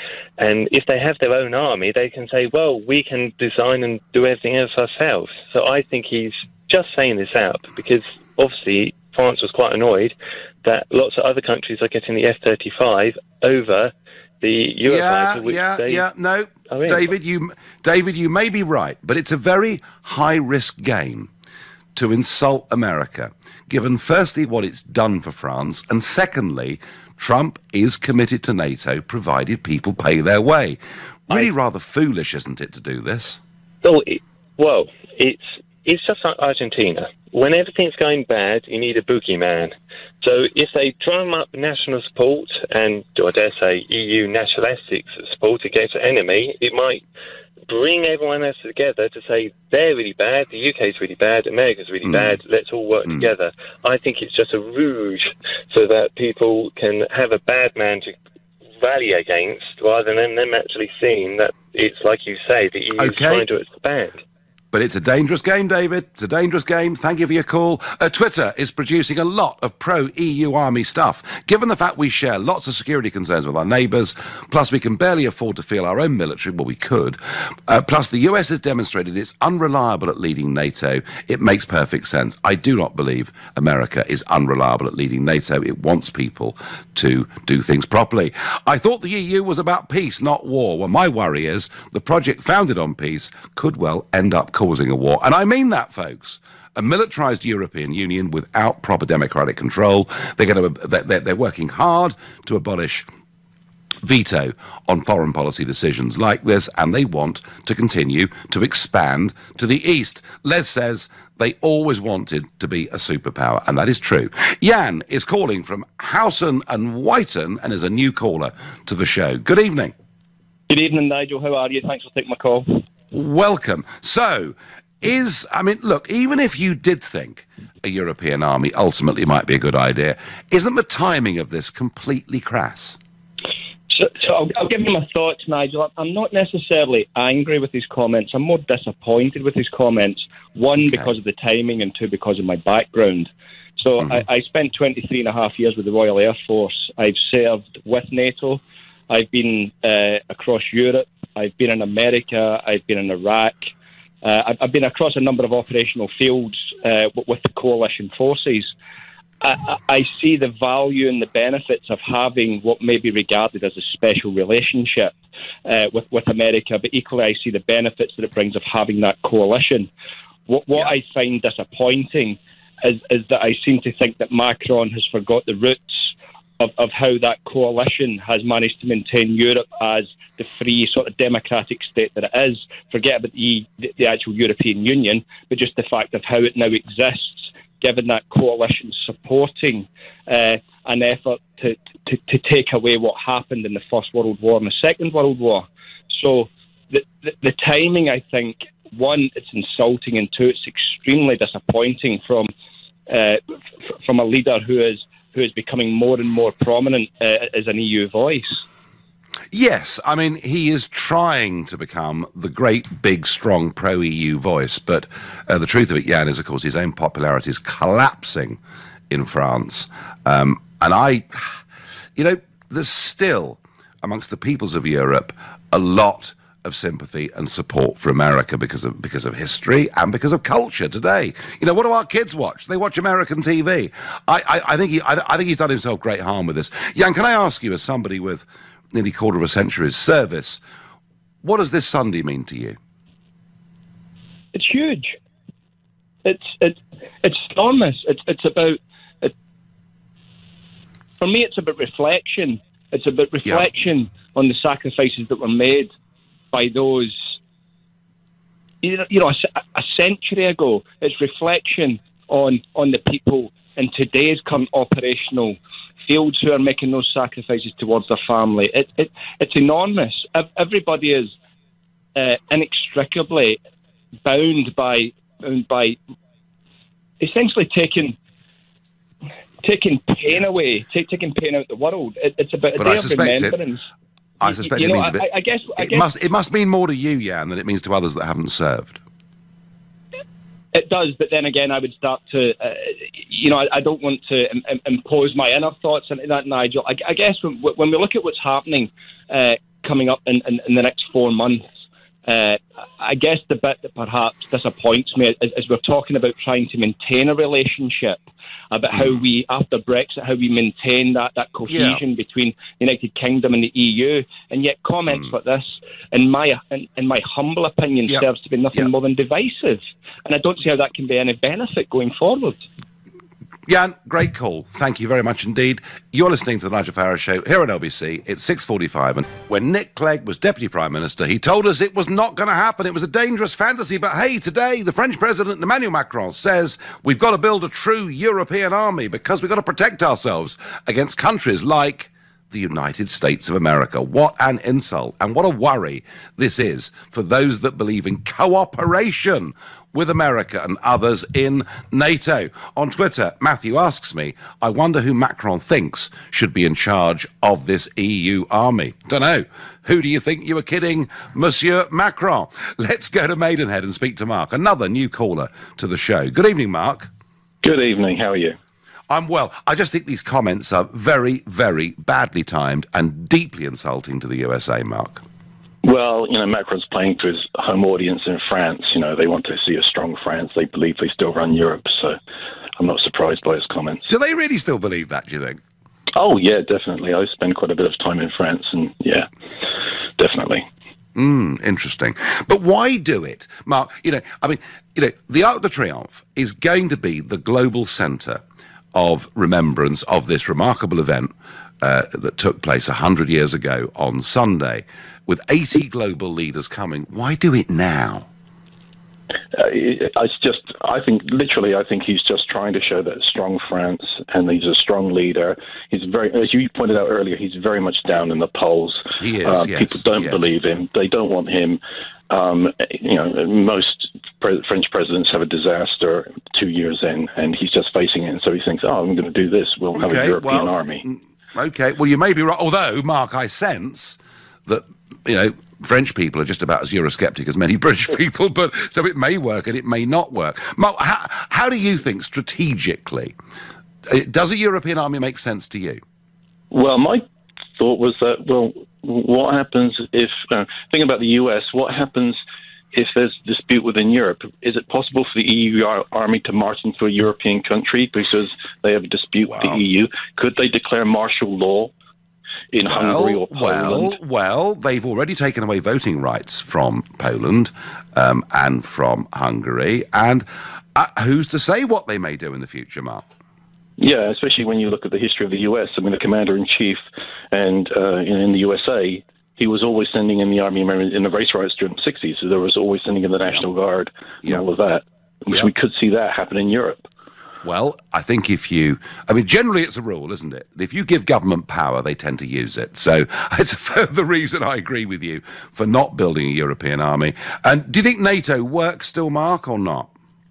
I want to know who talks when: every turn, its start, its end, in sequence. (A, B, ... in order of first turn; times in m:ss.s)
0:00.4-0:16.0 A
0:14.8-0:21.3 B
0:16.7-0:17.1 A
0:22.0-0:30.8 B
0:31.3-0:33.4 B
0:33.8-0:47.0 A
0:47.7-0:58.2 A
0:52.0-0:52.4 B
0:58.8-1:04.2 A
1:03.0-1:03.4 B
1:04.7-1:43.1 B
1:44.0-1:59.9 B
2:00.7-2:02.7 C
2:03.1-2:13.0 B
2:13.9-2:38.7 C
2:39.4-2:49.9 C
2:50.5-3:22.5 C
3:23.1-3:28.6 C
3:29.5-3:38.6 B
3:39.1-3:41.6 B
3:42.2-4:00.6 B
4:01.4-4:02.8 B
4:04.5-4:05.2 C
4:06.2-4:09.3 C
4:11.2-4:15.9 C
4:16.5-4:17.3 C
4:18.8-4:31.3 C
4:32.1-4:33.6 C
4:34.2-4:36.0 C
4:37.2-4:38.2 C
4:39.6-4:43.8 C
4:42.8-4:43.6 B
4:44.4-4:49.0 B
4:44.4-4:46.1 C
4:50.7-5:01.6 C
5:02.2-5:22.6 C
5:11.7-5:12.0 B
5:23.7-6:07.1 B
6:07.6-6:08.6 D
6:09.1-6:15.2 B
6:15.8-6:22.2 D
6:22.8-6:24.1 D
6:24.1-6:25.6 B
6:26.1-6:30.6 D
6:31.2-6:38.4 B
6:38.9-6:48.3 B
6:49.5-7:11.0 D
6:59.2-7:00.5 B
7:10.0-7:23.3 B
7:24.1-7:26.0 B
7:26.7-7:27.2 D
7:27.8-7:32.4 D
7:32.9-7:41.9 D
7:42.7-7:44.2 D
7:42.9-7:53.2 B
7:54.0-8:07.1 D
8:07.6-8:20.1 B